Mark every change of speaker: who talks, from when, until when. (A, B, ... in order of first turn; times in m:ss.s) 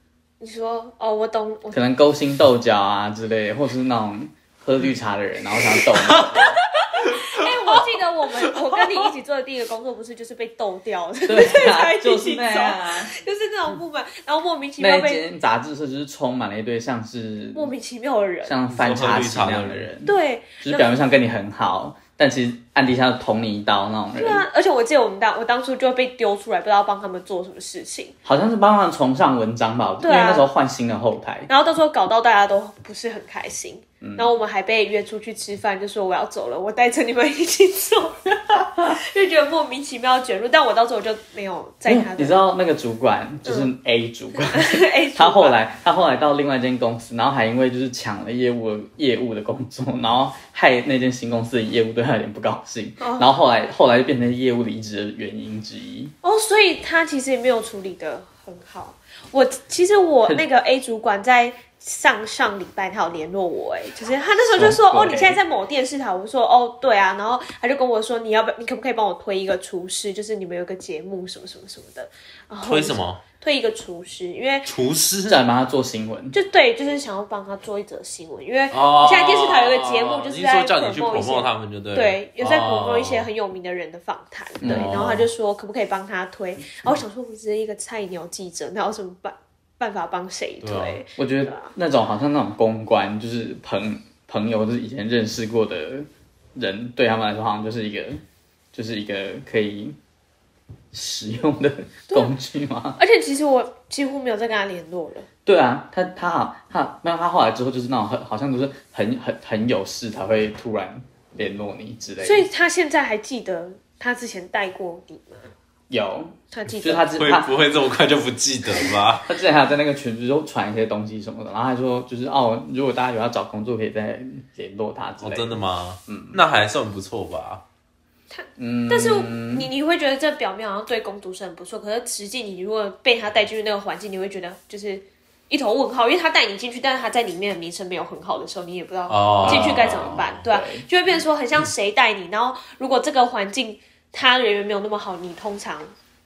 0:00.4-0:01.8 A
0:01.7-0:06.6 B
0:06.2-0:15.2 A
0:11.3-0:13.1 B
0:14.8-0:17.7 B
0:17.5-0:18.6 A
0:18.4-0:24.4 B
0:18.7-0:19.9 C
0:20.0-0:20.9 A
0:24.2-0:28.2 A
0:28.2-0:31.5 B
0:30.0-0:30.5 A
0:31.5-0:42.4 A
0:34.0-0:34.3 B
0:41.9-0:56.1 B
0:43.4-0:43.7 A
0:44.5-0:45.6 A
0:53.0-0:53.3 A
0:56.2-1:14.7 A
1:04.5-1:05.4 B
1:12.6-1:13.2 C
1:14.7-1:15.4 C
1:15.3-1:16.4 B
1:16.3-1:31.7 A
1:18.7-1:23.3 C
1:24.6-1:25.0 B
1:24.6-1:25.3 C
1:30.6-1:31.0 C
1:31.2-1:40.0 B
1:40.9-1:43.0 B
1:43.0-1:45.3 A
1:45.5-1:52.5 B
1:52.2-1:55.5 A
1:55.9-1:57.5 B
1:56.5-1:57.1 A
1:57.2-1:59.3 C
1:59.3-2:06.4 B
2:05.2-2:07.6 C
2:08.3-2:25.9 A
2:08.6-2:09.7 B
2:19.1-2:20.4 C
2:19.4-2:20.9 B